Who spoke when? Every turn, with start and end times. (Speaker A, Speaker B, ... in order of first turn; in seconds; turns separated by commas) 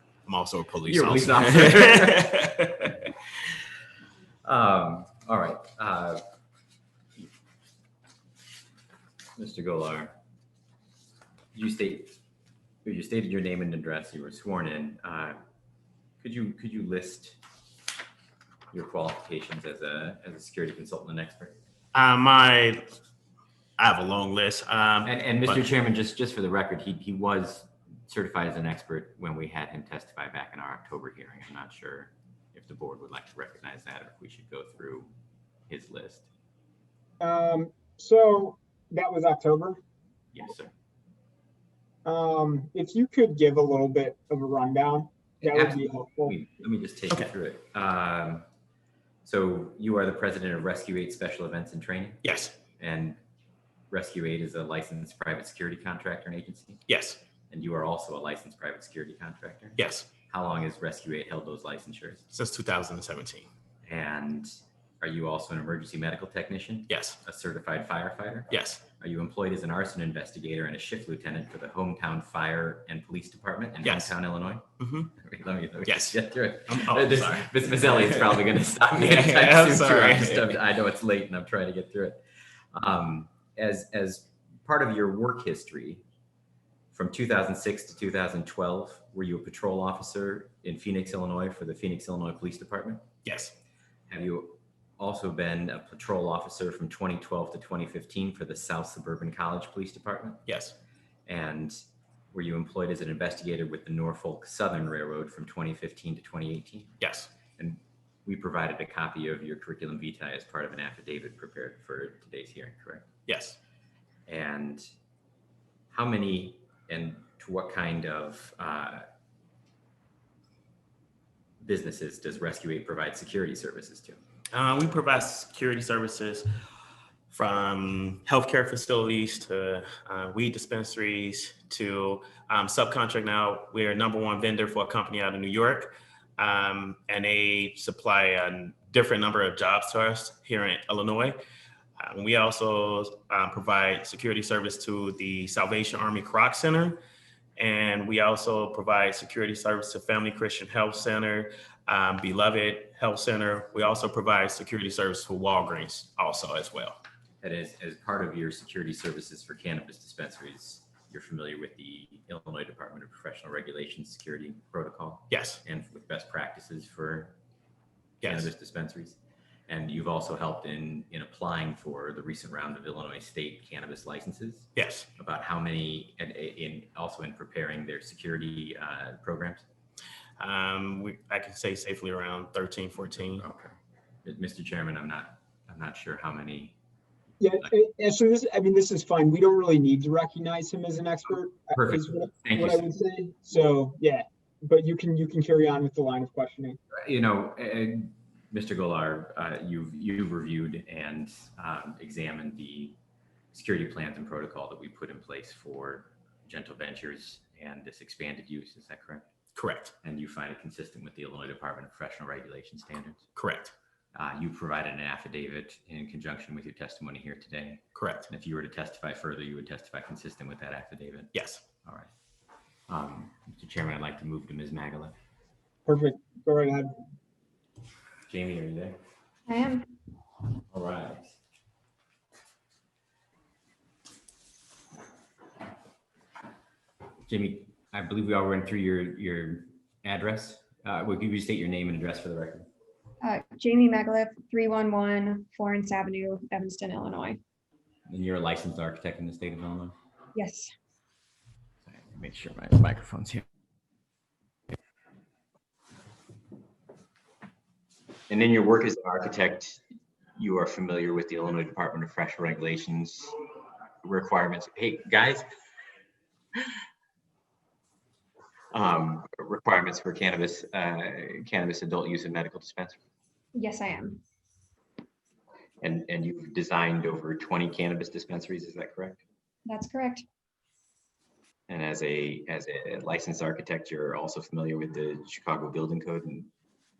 Speaker A: 0.2-3.1, Speaker B: 0.9-2.6, Speaker B: 4.4-6.2, Speaker B: 9.4-10.1, Speaker B: 11.5-12.2, Speaker B: 12.8-15.4, Speaker B: 16.2-17.4, Speaker B: 18.7-21.6, Speaker A: 21.9-22.9, Speaker A: 23.8-25.7, Speaker B: 25.0-35.1, Speaker B: 35.7-36.3, Speaker C: 37.2-39.8, Speaker B: 40.3-40.7, Speaker C: 42.0-46.3, Speaker B: 45.4-48.5, Speaker B: 49.2-52.2, Speaker A: 52.2-52.6, Speaker B: 52.8-53.2, Speaker B: 53.9-56.8, Speaker A: 56.9-57.2, Speaker B: 57.5-62.2, Speaker A: 59.8-60.1, Speaker A: 62.3-63.5, Speaker B: 63.8-82.2, Speaker A: 66.9-67.2, Speaker A: 68.5-68.8, Speaker A: 73.8-74.2, Speaker A: 74.8-75.1, Speaker A: 75.8-80.6, Speaker B: 82.7-86.0, Speaker B: 86.9-93.1, Speaker A: 93.2-93.5, Speaker B: 94.1-100.4, Speaker A: 100.5-100.8, Speaker B: 101.3-101.8, Speaker B: 102.3-106.9, Speaker A: 107.0-107.3, Speaker B: 107.6-113.1, Speaker A: 113.2-113.6, Speaker B: 114.3-114.9, Speaker B: 115.9-119.0, Speaker B: 121.6-124.2, Speaker A: 124.5-126.5, Speaker A: 127.3-141.4, Speaker A: 142.0-147.0, Speaker A: 147.6-157.0, Speaker B: 157.4-167.3, Speaker A: 165.3-165.6, Speaker A: 168.2-168.5, Speaker B: 168.2-179.6, Speaker A: 174.7-175.1, Speaker A: 180.4-183.4, Speaker B: 183.4-183.7, Speaker B: 184.2-186.7, Speaker C: 187.4-196.8, Speaker B: 191.7-192.8, Speaker B: 196.9-203.0, Speaker B: 203.5-209.2, Speaker A: 209.5-209.9, Speaker B: 210.0-213.2, Speaker A: 213.3-213.7, Speaker B: 214.1-221.3, Speaker A: 217.9-218.3, Speaker A: 221.3-221.6, Speaker B: 221.8-222.1, Speaker B: 222.9-225.1, Speaker C: 225.8-226.9, Speaker B: 228.3-229.0, Speaker D: 229.5-229.9, Speaker B: 230.7-231.3, Speaker B: 237.3-242.7, Speaker D: 243.2-247.4, Speaker B: 248.1-249.9, Speaker D: 250.3-250.7, Speaker B: 251.9-253.4, Speaker B: 258.3-259.8, Speaker B: 260.4-263.4, Speaker B: 264.0-265.4, Speaker B: 268.7-273.0, Speaker D: 273.5-274.2, Speaker B: 275.8-279.2, Speaker D: 279.6-280.2, Speaker B: 281.7-286.5